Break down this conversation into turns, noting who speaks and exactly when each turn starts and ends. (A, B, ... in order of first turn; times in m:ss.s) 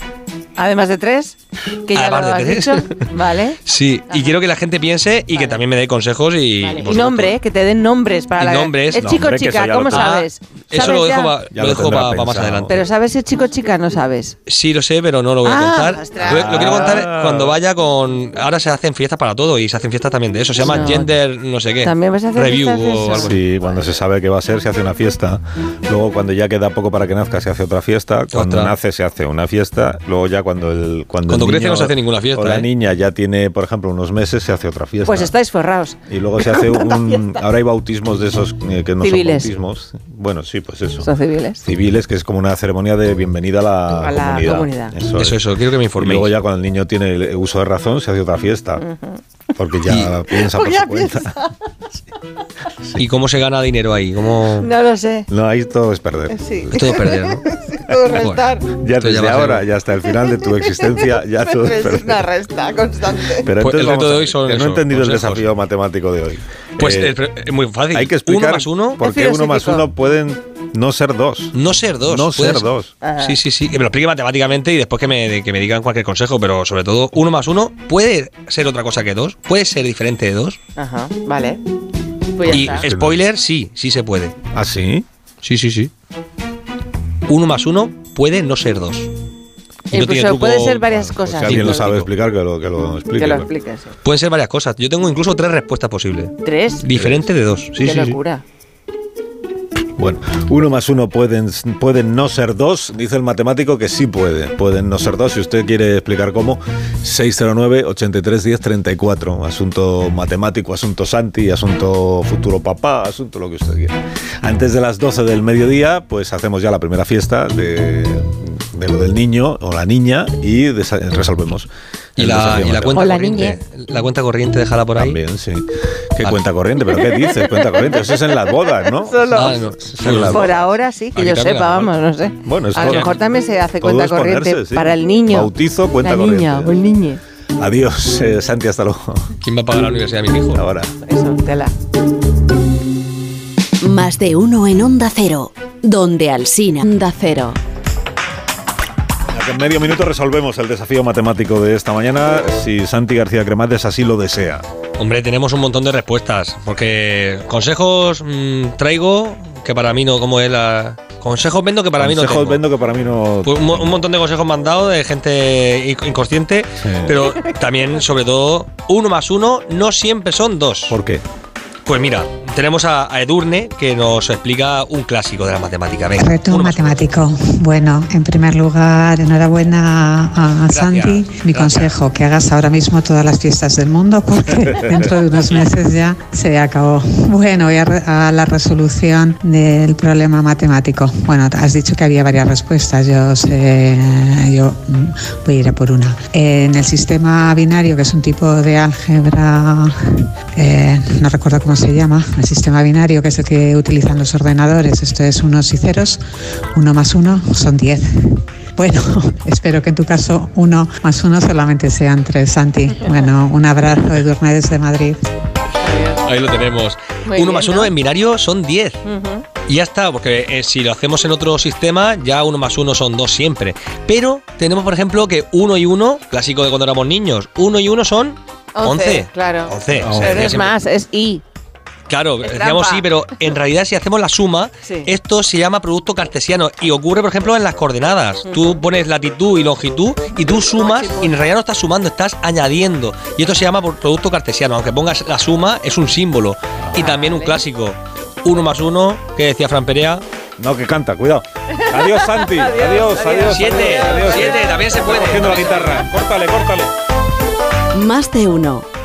0:00.6-0:03.6 A
0:01.9-0:03.1 B
0:03.6-0:07.4 B
0:06.6-0:11.4 A
0:08.4-0:12.8 B
0:09.0-0:10.2 C
0:10.7-0:12.8 C
0:12.7-0:14.4 A
0:14.4-0:23.4 B
0:15.4-0:16.9 A
0:16.2-0:17.6 C
0:20.6-0:21.1 A
0:21.8-0:23.4 A
0:23.2-0:35.3 C
0:28.3-0:28.7 B
0:31.3-0:32.7 B
0:35.0-0:37.3 A
0:36.1-0:41.1 C
0:39.0-0:39.5 A
0:41.0-0:41.6 A
0:41.6-0:45.4 C
0:44.0-0:44.9 A
0:45.1-0:46.3 B
0:46.0-0:48.8 C
0:48.8-0:49.2 A
0:49.6-0:51.4 C
0:50.3-0:51.5 A
0:53.0-0:54.7 B
0:54.6-0:55.3 A
0:55.3-0:57.0 C
0:56.3-0:58.7 A
0:56.7-0:57.4 B
0:58.1-0:59.7 B
0:58.7-1:02.3 C
1:00.1-1:03.5 A
1:03.4-1:07.2 C
1:03.6-1:05.5 B
1:06.8-1:09.0 B
1:07.9-1:12.9 C
1:09.0-1:09.9 A
1:11.5-1:20.6 B
1:13.0-1:13.4 A
1:20.8-1:21.6 A
1:22.3-1:22.9 A
1:22.4-1:23.2 C
1:22.4-1:24.3 B
1:24.5-1:25.0 C
1:25.4-1:25.9 B
1:27.2-1:29.1 B
1:29.9-1:31.9 A
1:29.9-1:32.1 B
1:31.0-1:33.5 C
1:33.2-1:33.9 A
1:34.0-1:38.2 B
1:36.4-1:36.8 A
1:36.9-1:37.3 C
1:37.8-1:38.4 A
1:40.0-2:03.1 C
2:02.2-2:05.2 B
2:02.9-2:03.6 A
2:05.0-2:10.7 C
2:07.0-2:09.7 A
2:09.3-2:10.6 B
2:10.2-2:17.2 A
2:11.1-2:11.9 B
2:12.4-2:13.2 C
2:12.8-2:13.2 B
2:13.8-2:16.8 C
2:17.6-2:19.3 C
2:19.4-2:20.6 B
2:20.5-2:20.9 C
2:21.0-2:21.7 A
2:23.8-2:27.6 D
2:29.3-2:34.6 C
2:35.0-2:42.6 B
2:42.0-2:44.0 C
2:43.4-2:51.0 B
2:46.8-2:47.2 C
2:50.9-2:51.2 C
2:51.8-2:57.0 B
2:56.1-3:26.2 E
3:00.7-3:02.0 B
3:26.7-3:35.2 E
3:35.8-3:36.2 A
3:36.2-3:39.0 B
3:37.2-3:37.9 A
3:39.0-3:39.5 A
3:39.6-3:50.7 B
3:48.7-3:51.4 A
3:49.9-3:50.6 C
3:52.1-4:10.2 B
3:52.4-3:53.2 A
3:54.8-3:55.1 A
3:58.5-3:58.8 A
4:00.6-4:01.3 A
4:06.9-4:07.6 A
4:10.6-4:16.9 C
4:11.8-4:15.4 A
4:13.5-4:16.0 B
4:17.9-4:18.8 D